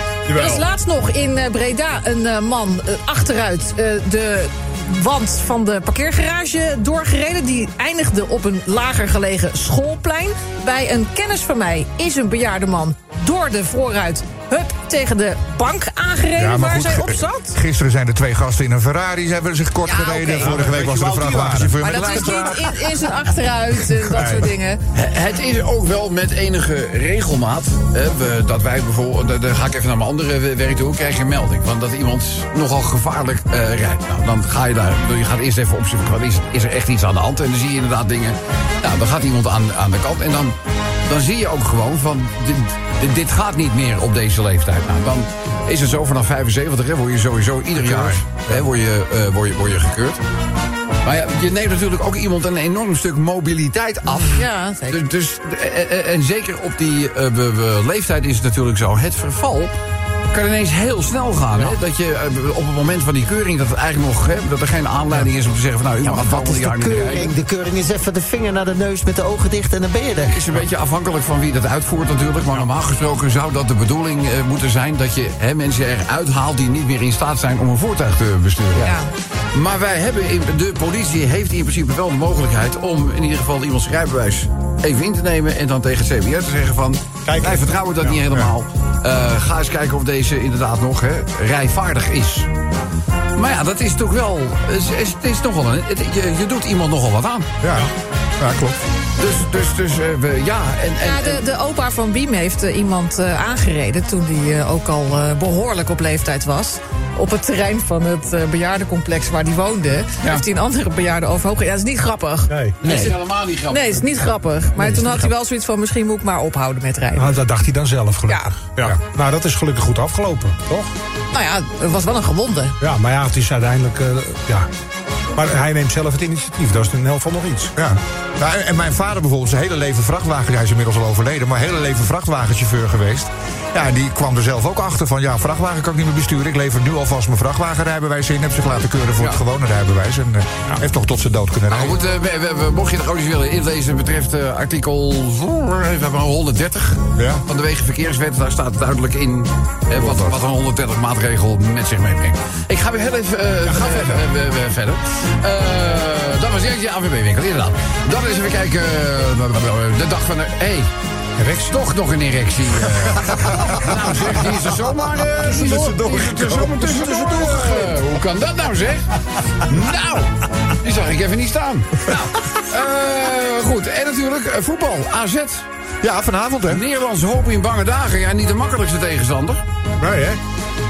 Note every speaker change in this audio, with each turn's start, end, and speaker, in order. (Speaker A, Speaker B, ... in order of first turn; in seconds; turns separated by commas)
Speaker A: 0.3-0.6, Speaker B: 0.3-17.6, Speaker C: 16.4-22.7, Speaker B: 19.9-20.6, Speaker A: 20.4-22.7, Speaker B: 21.8-24.8, Speaker A: 24.0-24.5, Speaker D: 24.9-50.2, Speaker A: 47.8-48.6, Speaker D: 51.0-59.7, Speaker B: 54.1-55.0, Speaker D: 60.3-67.3, Speaker E: 66.0-70.4, Speaker D: 70.3-79.0, Speaker B: 78.8-79.1, Speaker D: 79.5-92.5, Speaker A: 87.2-88.2, Speaker D: 93.4-97.5, Speaker C: 97.6-97.9, Speaker C: 98.4-98.8, Speaker D: 99.2-101.4, Speaker B: 101.0-113.2, Speaker A: 112.5-112.8, Speaker D: 112.8-115.2, Speaker B: 113.7-117.4, Speaker A: 117.1-120.9, Speaker B: 118.3-118.5, Speaker B: 121.3-122.8, Speaker A: 122.8-124.7, Speaker A: 125.4-127.7, Speaker C: 127.7-142.0, Speaker D: 141.7-160.9, Speaker C: 147.2-147.4, Speaker C: 149.9-150.3, Speaker A: 153.6-154.2, Speaker A: 161.4-161.8, Speaker D: 161.7-175.7, Speaker A: 163.4-168.1, Speaker C: 165.5-166.8, Speaker C: 176.0-176.8, Speaker D: 176.7-179.6, Speaker A: 180.0-180.4